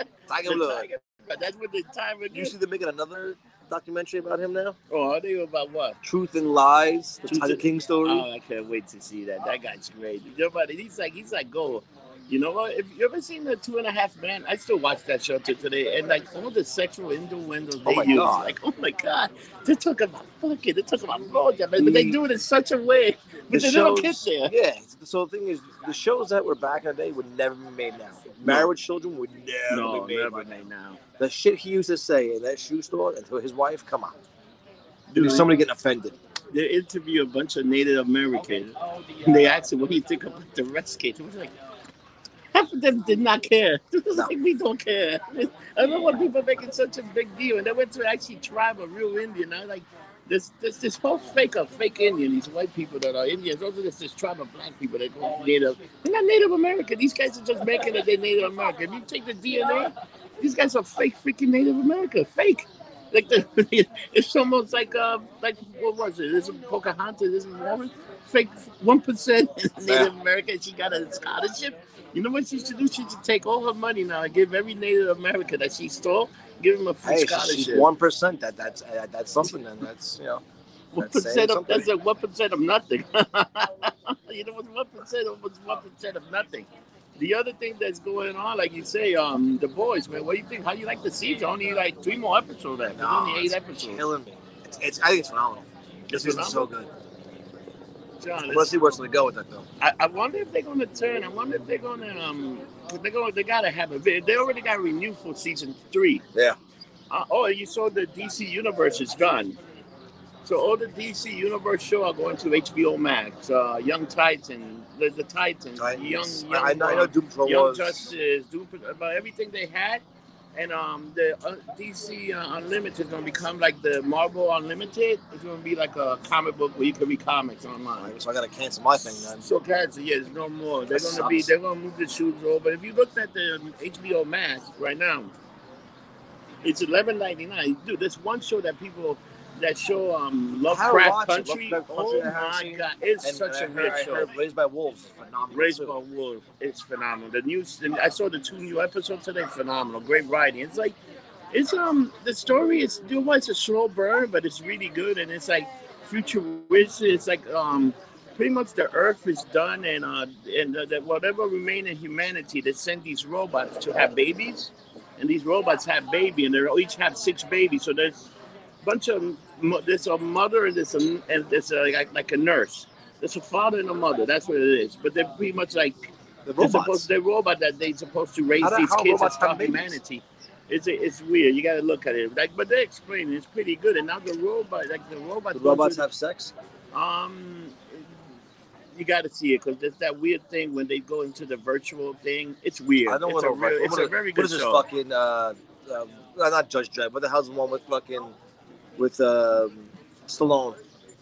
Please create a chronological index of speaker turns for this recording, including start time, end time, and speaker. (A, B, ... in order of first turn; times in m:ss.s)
0:00.3-0:00.9 A
0:00.4-0:02.5 B
0:02.3-0:04.8 A
0:04.9-0:06.0 B
0:06.0-0:08.3 A
0:07.3-0:24.5 B
0:17.8-0:18.6 A
0:21.8-0:22.2 A
0:23.5-0:30.5 A
0:28.4-0:28.7 B
0:29.7-0:31.0 B
0:31.2-0:34.1 A
0:35.1-0:35.5 B
0:35.2-0:36.1 A
0:36.5-0:41.5 B
0:42.5-1:17.9 B
1:09.8-1:10.1 A
1:17.0-1:20.4 A
1:20.9-1:34.0 B
1:21.0-1:21.9 A
1:32.9-1:36.9 A
1:36.1-1:36.7 B
1:38.2-1:38.7 B
1:38.4-1:39.7 A
1:39.8-1:46.2 B
1:47.1-1:49.6 B
1:50.4-2:00.0 B
1:55.8-1:58.0 A
2:00.5-2:08.1 B
2:08.0-2:09.4 A
2:09.2-2:15.3 B
2:10.9-2:11.5 A
2:16.6-2:24.3 B
2:20.7-2:26.0 A
2:25.5-2:31.0 B
2:31.5-2:48.3 B
2:48.8-3:06.0 B
2:56.4-2:57.1 A
2:58.6-3:00.0 A
3:05.5-3:06.5 A
3:06.9-3:08.1 B
3:08.9-3:14.8 B
3:13.0-3:18.3 A
3:19.0-3:20.8 A